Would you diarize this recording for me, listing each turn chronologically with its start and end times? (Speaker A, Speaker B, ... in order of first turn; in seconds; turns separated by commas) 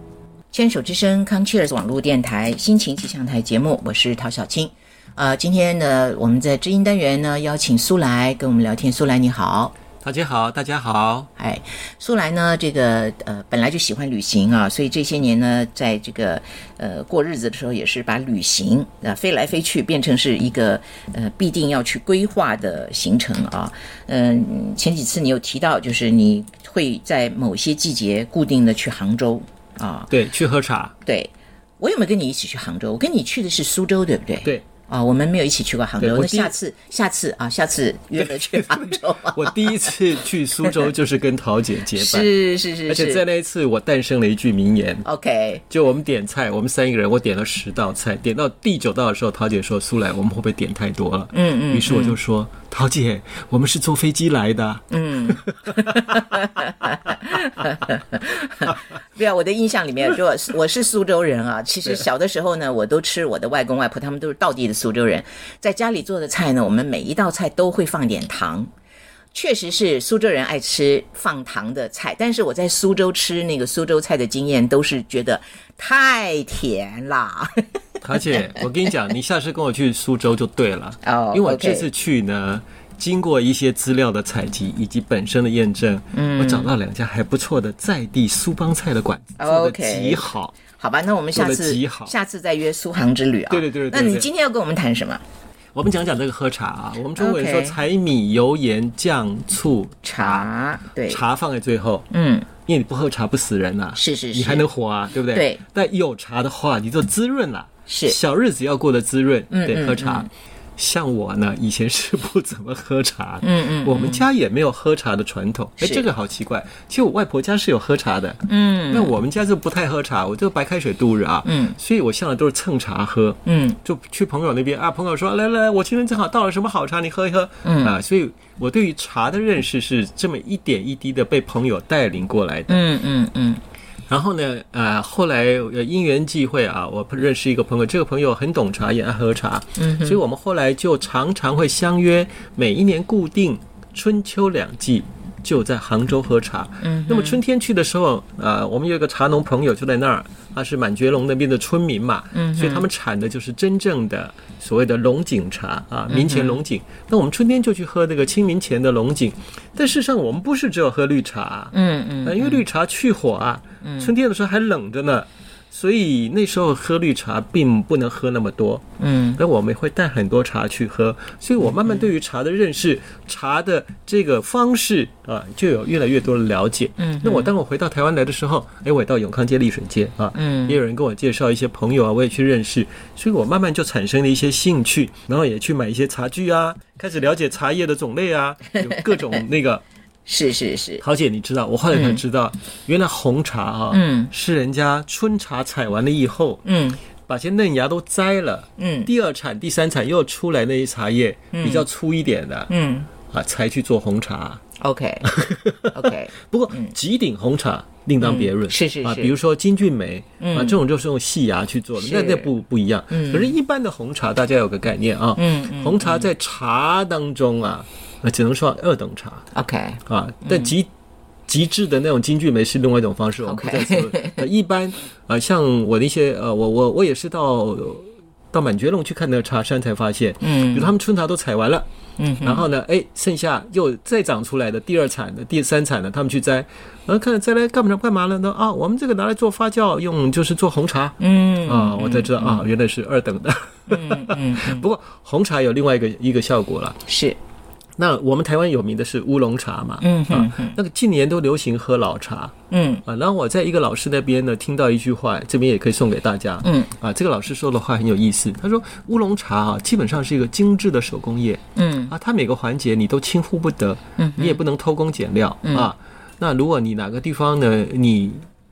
Speaker A: 0.5-9.7, Speaker B: 10.0-11.3, Speaker A: 11.4-30.1, Speaker B: 30.1-30.9, Speaker A: 31.0-39.9, Speaker B: 36.0-36.5, Speaker B: 38.2-42.3, Speaker A: 41.9-43.2, Speaker B: 42.9-45.1, Speaker A: 45.0-45.6, Speaker B: 45.7-56.2, Speaker A: 51.3-52.2, Speaker A: 54.9-68.7, Speaker A: 69.3-77.6, Speaker B: 78.0-90.5, Speaker A: 81.0-81.9, Speaker A: 86.1-86.7, Speaker A: 89.4-95.2, Speaker B: 91.3-92.2, Speaker B: 93.5-94.3, Speaker B: 95.8-100.5, Speaker A: 97.2-97.8, Speaker A: 100.0-101.2, Speaker B: 101.1-102.1, Speaker A: 102.1-102.5, Speaker B: 102.7-132.8, Speaker A: 104.0-104.7, Speaker A: 105.3-105.6, Speaker A: 107.9-108.2, Speaker A: 109.5-110.3, Speaker A: 113.4-114.3, Speaker A: 115.8-116.1, Speaker A: 118.5-119.2, Speaker A: 121.5-121.8, Speaker A: 123.5-123.8, Speaker A: 127.6-128.0, Speaker A: 132.7-133.6, Speaker B: 134.1-168.8, Speaker A: 139.8-140.2, Speaker A: 146.8-147.4, Speaker A: 152.3-152.9, Speaker A: 156.1-156.6, Speaker A: 161.7-162.7, Speaker A: 163.8-164.1, Speaker A: 169.0-169.4, Speaker B: 169.4-189.8, Speaker A: 177.0-177.5, Speaker A: 180.3-180.8, Speaker A: 188.8-189.4, Speaker A: 190.3-191.0, Speaker B: 191.0-196.6, Speaker A: 191.9-192.2, Speaker A: 193.9-194.3, Speaker A: 196.7-197.0, Speaker B: 197.3-202.7, Speaker A: 198.8-199.1, Speaker A: 201.5-201.9, Speaker A: 202.7-203.1, Speaker B: 203.3-204.6, Speaker A: 204.8-206.9, Speaker B: 205.3-219.4, Speaker A: 208.2-209.3, Speaker A: 210.4-210.8, Speaker A: 212.0-212.5, Speaker A: 213.1-213.6, Speaker A: 215.4-216.3, Speaker A: 219.5-220.7, Speaker B: 220.1-220.9, Speaker B: 221.5-231.9, Speaker A: 223.4-224.4, Speaker A: 230.4-230.9, Speaker A: 232.2-232.7, Speaker B: 232.4-247.0, Speaker A: 241.2-242.6, Speaker A: 243.9-244.9, Speaker A: 247.1-247.4, Speaker B: 248.0-252.5, Speaker A: 250.0-250.8, Speaker A: 252.7-253.0, Speaker B: 253.1-268.5, Speaker A: 256.6-256.9, Speaker A: 261.8-262.1, Speaker A: 264.2-264.6, Speaker A: 265.6-265.9